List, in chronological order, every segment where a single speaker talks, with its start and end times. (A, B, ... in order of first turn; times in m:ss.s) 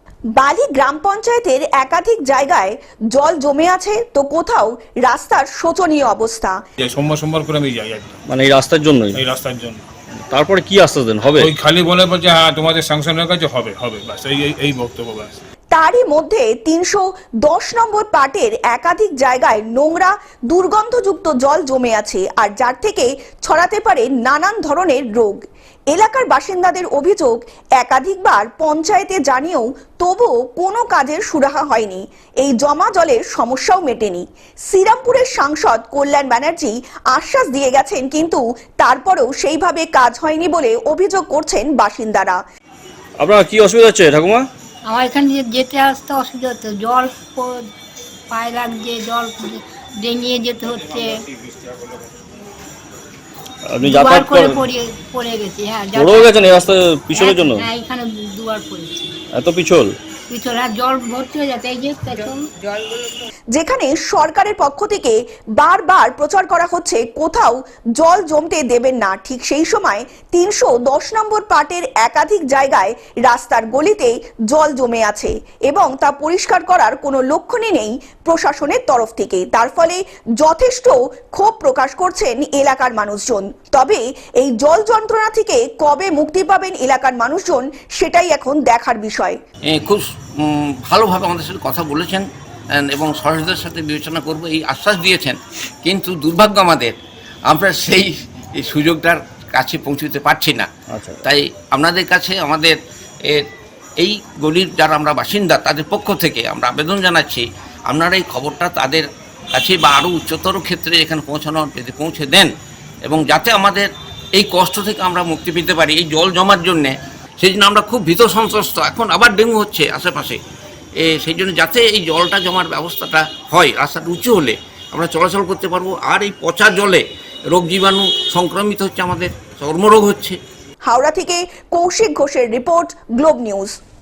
0:00.4-0:06.6 A
0:06.8-0:08.2 B
0:08.3-0:09.2 C
0:09.1-0:09.9 B
0:10.2-0:11.5 C
0:11.4-0:15.4 B
0:15.7-0:25.4 A
0:25.9-0:42.4 A
0:43.2-0:44.4 C
0:44.9-0:47.5 D
0:48.3-0:51.2 D
0:53.6-0:54.6 C
0:53.8-0:59.1 D
0:55.9-0:57.7 C
0:59.3-0:59.9 C
1:00.3-1:03.0 D
1:03.5-1:29.4 A
1:29.7-1:36.9 E
1:37.5-1:40.7 E
1:40.9-1:41.2 C
1:41.2-1:43.4 E
1:44.0-1:52.5 E
1:53.0-2:00.4 E
2:01.0-2:10.4 E
2:10.8-2:13.7 A